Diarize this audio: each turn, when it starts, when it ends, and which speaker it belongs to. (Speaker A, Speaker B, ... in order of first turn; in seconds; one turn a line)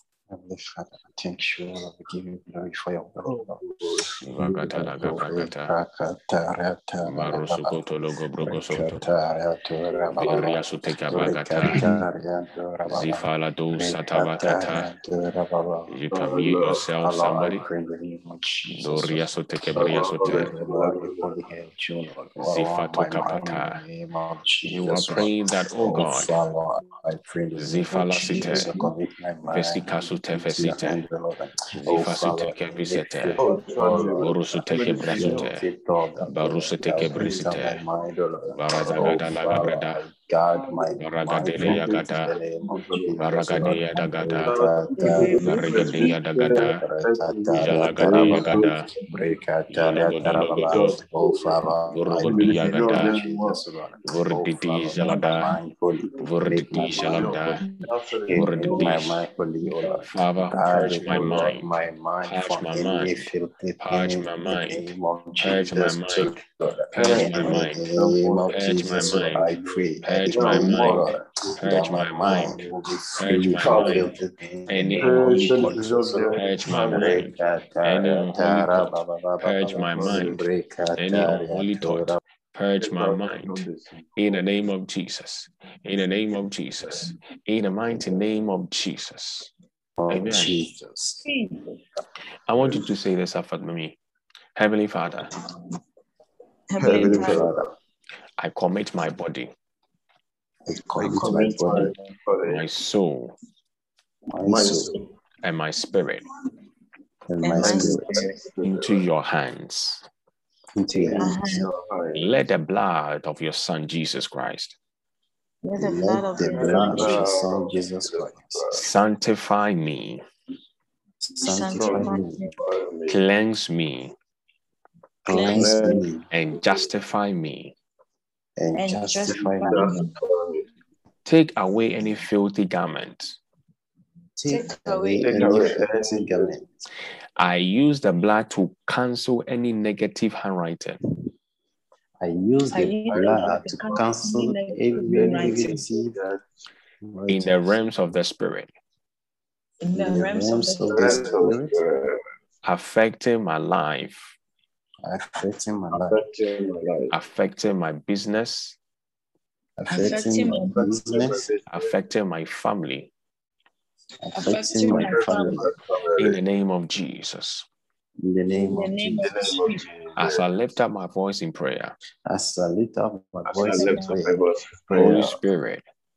Speaker A: 0.3-7.8
Speaker B: 3.2-4.1
Speaker C: 4.2-5.7
Speaker C: 7.0-9.1
Speaker A: 8.4-15.9
Speaker B: 10.0-10.6
Speaker C: 10.2-11.8
Speaker C: 12.9-14.9
Speaker C: 15.9-17.6
Speaker B: 16.1-16.9
Speaker A: 17.0-19.3
Speaker C: 18.7-20.5
Speaker B: 19.7-21.4
Speaker A: 19.9-45.7
Speaker C: 22.4-23.8
Speaker C: 24.7-26.3
Speaker C: 27.5-28.8
Speaker D: 28.3-28.9
Speaker C: 29.5-31.0
Speaker C: 31.8-33.4
Speaker B: 33.3-35.5
Speaker C: 34.2-35.6
Speaker C: 36.3-37.8
Speaker C: 38.5-40.0
Speaker C: 41.0-42.4
Speaker B: 41.4-43.8
Speaker C: 43.2-44.6
Speaker B: 44.4-49.0
Speaker D: 45.0-46.1
Speaker C: 45.4-46.8
Speaker A: 46.5-57.4
Speaker C: 47.5-48.9
Speaker C: 49.7-51.0
Speaker B: 50.6-51.6
Speaker C: 51.9-53.1
Speaker B: 52.2-53.6
Speaker C: 54.0-55.5
Speaker C: 56.2-57.6
Speaker B: 56.7-59.0
Speaker A: 58.3-82.2
Speaker C: 58.3-59.2
Speaker D: 58.6-59.0
Speaker C: 60.1-61.6
Speaker B: 61.0-61.5
Speaker C: 62.3-64.8
Speaker C: 65.4-66.3
Speaker C: 66.9-67.8
Speaker B: 67.0-74.2
Speaker C: 68.5-69.5
Speaker C: 70.0-72.6
Speaker C: 73.2-74.1
Speaker C: 74.7-75.8
Speaker B: 74.9-77.3
Speaker C: 76.3-80.4
Speaker B: 79.7-80.4
Speaker C: 81.0-83.6
Speaker B: 82.8-84.5
Speaker C: 84.2-89.5
Speaker A: 90.0-91.2
Speaker C: 90.1-90.6
Speaker D: 91.2-91.8
Speaker C: 92.5-94.0
Speaker C: 94.5-95.3
Speaker D: 96.7-97.5
Speaker B: 96.8-97.7
Speaker A: 96.8-97.7
Speaker C: 98.4-99.5
Speaker A: 100.7-101.9
Speaker B: 101.0-102.7
Speaker C: 102.4-103.3
Speaker A: 104.3-105.0
Speaker B: 104.4-105.0
Speaker C: 105.4-106.2
Speaker A: 107.3-108.2
Speaker D: 107.4-108.4
Speaker B: 107.5-109.0
Speaker C: 108.6-110.0
Speaker A: 110.7-111.7
Speaker B: 111.0-112.3
Speaker D: 111.1-111.7
Speaker C: 112.1-114.8
Speaker D: 115.6-117.4
Speaker A: 115.7-118.7
Speaker B: 116.4-118.8
Speaker C: 118.7-120.2
Speaker A: 121.2-122.5
Speaker D: 121.4-122.5
Speaker B: 121.7-123.2
Speaker C: 123.1-124.1
Speaker A: 125.2-126.2
Speaker D: 125.3-126.0
Speaker B: 125.4-126.0
Speaker C: 126.3-127.7
Speaker A: 128.6-129.9
Speaker D: 128.7-130.1
Speaker B: 129.3-130.6
Speaker C: 131.2-133.4
Speaker A: 134.4-136.7
Speaker D: 134.5-135.9
Speaker B: 135.2-136.6
Speaker C: 137.4-141.0
Speaker A: 142.2-146.2
Speaker D: 142.7-145.9
Speaker B: 143.1-144.1
Speaker B: 145.0-146.5
Speaker A: 147.0-147.7
Speaker C: 147.3-148.7
Speaker D: 149.8-151.2
Speaker A: 149.9-151.8
Speaker B: 150.9-152.2
Speaker C: 152.6-154.3
Speaker A: 155.0-156.2
Speaker B: 155.9-157.1
Speaker C: 157.1-158.8
Speaker A: 159.8-161.5
Speaker D: 159.9-160.8
Speaker B: 160.7-161.9
Speaker C: 161.7-163.1
Speaker A: 164.2-165.7
Speaker D: 164.3-165.7
Speaker B: 164.8-166.4
Speaker C: 166.2-167.7
Speaker A: 168.2-169.6
Speaker D: 168.5-169.9
Speaker B: 169.2-170.4
Speaker C: 170.2-171.9
Speaker A: 172.2-174.4
Speaker B: 173.4-175.4
Speaker D: 173.6-174.2
Speaker C: 174.9-175.8